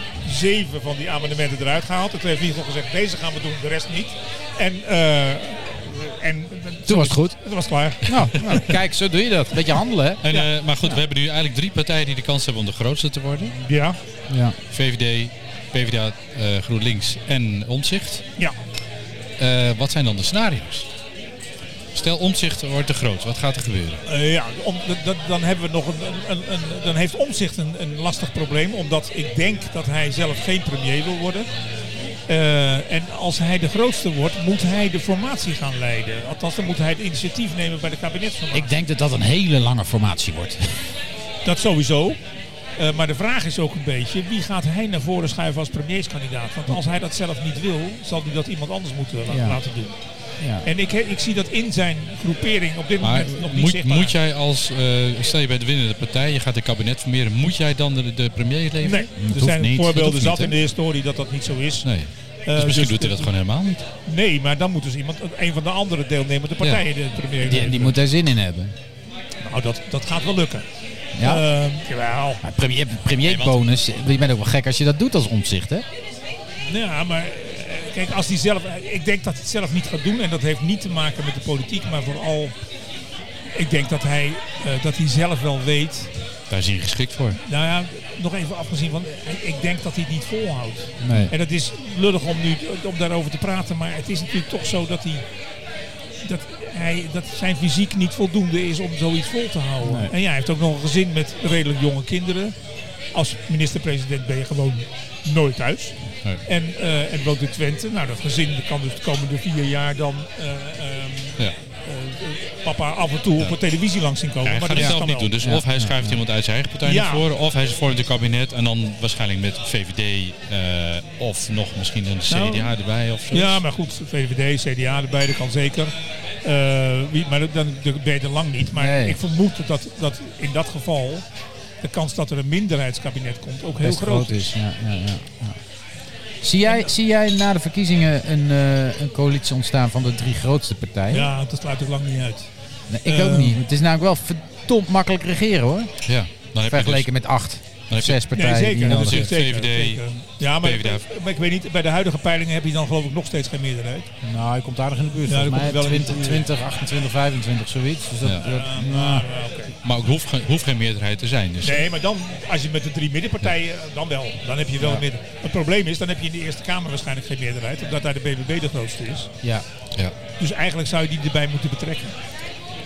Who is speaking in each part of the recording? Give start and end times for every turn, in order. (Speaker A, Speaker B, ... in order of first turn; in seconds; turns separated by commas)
Speaker A: 0.2-8.7, Speaker B: 6.9-7.3, Speaker B: 8.0-10.2, Speaker C: 10.2-13.5, Speaker A: 13.6-14.0, Speaker B: 14.3-14.6, Speaker C: 14.7-18.2, Speaker C: 19.4-20.9, Speaker C: 21.9-24.0, Speaker A: 24.1-31.5, Speaker A: 32.3-38.7, Speaker B: 38.5-40.8, Speaker A: 41.4-42.2, Speaker A: 42.8-50.0, Speaker B: 49.3-49.6, Speaker A: 50.6-54.1, Speaker C: 53.0-59.1, Speaker A: 58.8-61.9, Speaker B: 59.2-60.4, Speaker C: 60.0-60.5, Speaker C: 61.8-63.8, Speaker A: 62.5-63.3, Speaker A: 64.0-68.0, Speaker B: 67.4-68.7, Speaker A: 69.4-70.6, Speaker B: 71.2-71.4, Speaker A: 71.2-72.4, Speaker B: 72.4-75.8, Speaker C: 73.2-73.6, Speaker A: 76.7-82.5, Speaker A: 83.5-86.1, Speaker C: 86.5-87.4, Speaker A: 87.4-95.2, Speaker B: 91.0-91.3, Speaker A: 96.2-102.5, Speaker B: 99.8-100.1, Speaker A: 103.1-115.3, Speaker C: 114.4-123.6, Speaker B: 114.8-116.2, Speaker A: 116.8-117.2, Speaker A: 122.3-122.7, Speaker A: 123.3-125.9, Speaker A: 126.4-131.2, Speaker B: 128.8-129.2, Speaker A: 131.8-134.4, Speaker B: 133.8-135.6, Speaker B: 136.4-141.3, Speaker A: 136.6-136.9, Speaker A: 141.1-142.5, Speaker B: 142.9-145.9, Speaker A: 143.0-143.6, Speaker C: 146.1-147.1, Speaker B: 146.7-149.3, Speaker C: 147.9-148.2, Speaker A: 148.3-154.1, Speaker C: 148.8-151.0, Speaker B: 154.2-159.2, Speaker A: 155.3-156.5, Speaker A: 158.4-159.7, Speaker C: 159.8-161.8, Speaker A: 161.6-169.3, Speaker A: 170.4-172.2